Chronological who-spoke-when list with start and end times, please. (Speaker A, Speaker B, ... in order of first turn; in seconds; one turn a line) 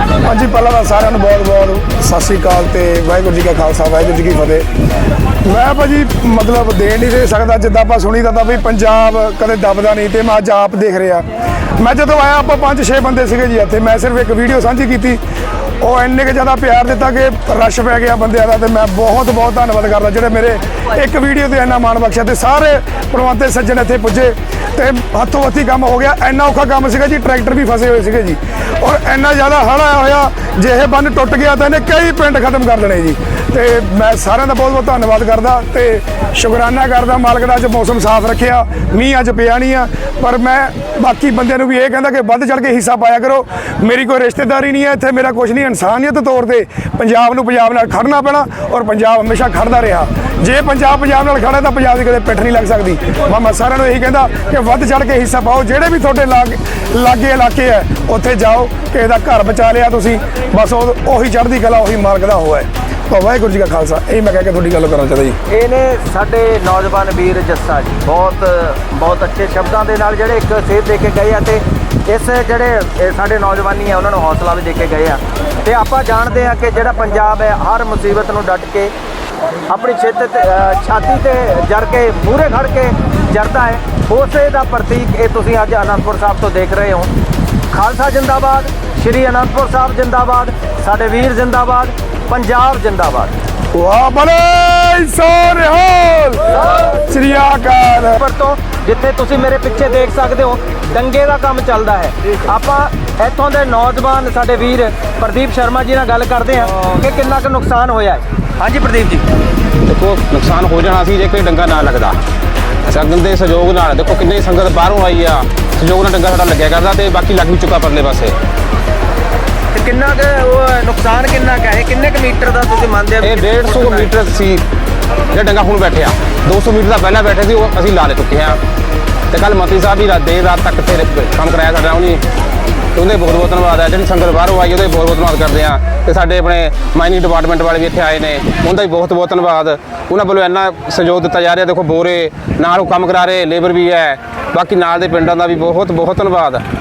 Speaker A: 0.2-4.7
Speaker A: 5.4-15.2
Speaker A: 15.8-65.4
Speaker B: 65.5-78.9
Speaker B: 79.7-87.1
Speaker B: 87.7-93.3
Speaker A: 93.7-98.2
Speaker B: 98.2-109.2
Speaker C: 109.8-112.2
Speaker C: 112.9-118.3
Speaker B: 119.7-124.1
Speaker C: 123.2-124.6
Speaker C: 125.3-128.6
Speaker C: 129.3-132.2
Speaker C: 132.9-146.6